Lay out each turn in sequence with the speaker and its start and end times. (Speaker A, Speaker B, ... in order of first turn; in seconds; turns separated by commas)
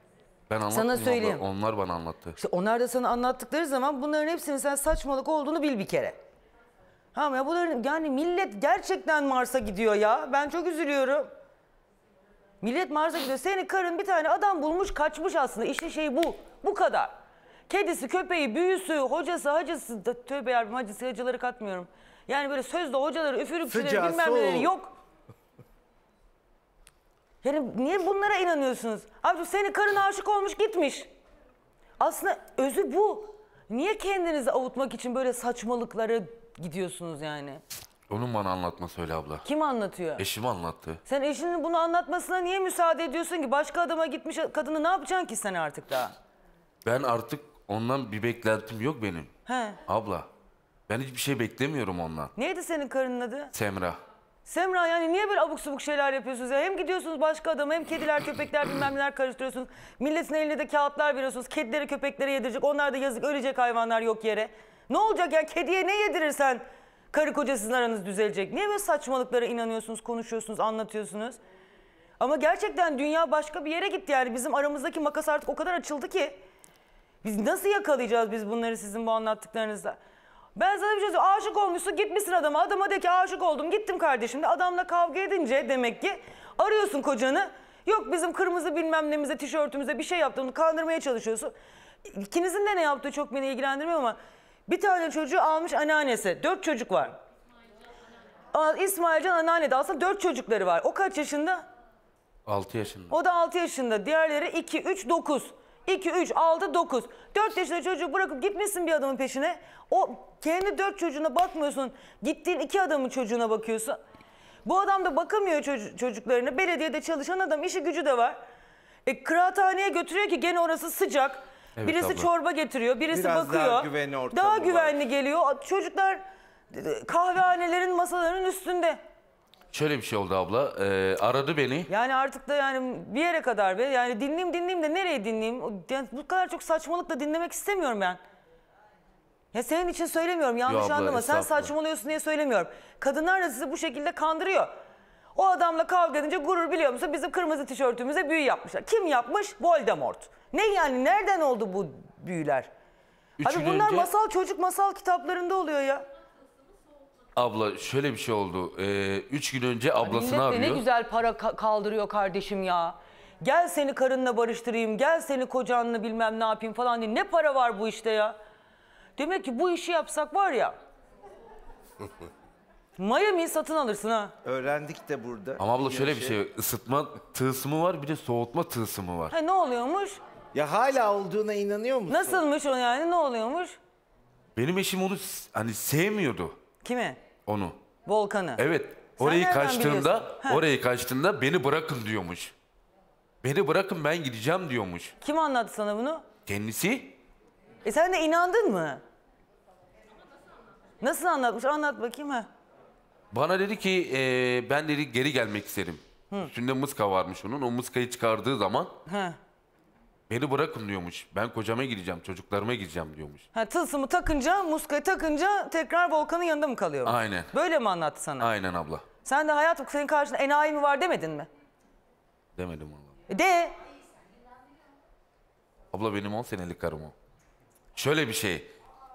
Speaker A: 0.5-2.4, Speaker B: 0.7-1.4, Speaker B: 2.4-6.2, Speaker B: 7.1-11.3, Speaker B: 12.6-17.1, Speaker B: 17.7-24.9, Speaker C: 23.6-24.7, Speaker B: 27.4-31.1, Speaker B: 32.0-37.6, Speaker A: 38.1-39.4, Speaker B: 39.4-40.2, Speaker A: 40.2-41.0, Speaker B: 41.0-46.1, Speaker A: 46.8-49.3, Speaker B: 49.5-49.8, Speaker A: 49.9-50.3, Speaker A: 50.9-52.3, Speaker B: 52.4-53.5, Speaker A: 53.5-54.0, Speaker B: 54.4-71.4, Speaker B: 72.2-76.4, Speaker B: 77.2-80.0, Speaker B: 80.5-97.2, Speaker B: 98.5-101.6, Speaker A: 102.5-103.1, Speaker B: 103.1-114.0, Speaker B: 114.6-118.4, Speaker B: 119.0-129.0, Speaker A: 121.8-122.3, Speaker C: 123.1-125.0, Speaker A: 129.7-131.9, Speaker B: 131.9-138.2, Speaker B: 139.5-144.7, Speaker A: 140.7-141.7, Speaker B: 145.3-152.7, Speaker A: 153.4-154.1, Speaker B: 153.4-156.0, Speaker A: 157.3-160.8, Speaker B: 160.0-168.3, Speaker B: 169.2-170.8, Speaker B: 173.0-174.3, Speaker C: 174.4-176.4, Speaker A: 175.6-179.3, Speaker B: 179.3-180.2, Speaker C: 180.5-182.4, Speaker B: 182.1-183.8, Speaker A: 184.6-186.5, Speaker B: 186.8-187.2, Speaker A: 187.4-187.8, Speaker B: 188.1-188.6, Speaker A: 188.6-192.5, Speaker B: 189.2-190.6, Speaker A: 193.4-195.1, Speaker B: 195.2-196.2, Speaker A: 196.4-197.2, Speaker B: 197.8-199.0, Speaker B: 201.0-202.5, Speaker A: 203.3-208.9, Speaker B: 209.1-209.4, Speaker A: 210.3-213.4, Speaker B: 213.5-218.5, Speaker A: 217.0-217.5, Speaker A: 218.4-219.0, Speaker B: 219.2-221.5, Speaker A: 222.6-223.1, Speaker B: 223.3-223.7, Speaker A: 225.9-227.1, Speaker A: 227.9-228.7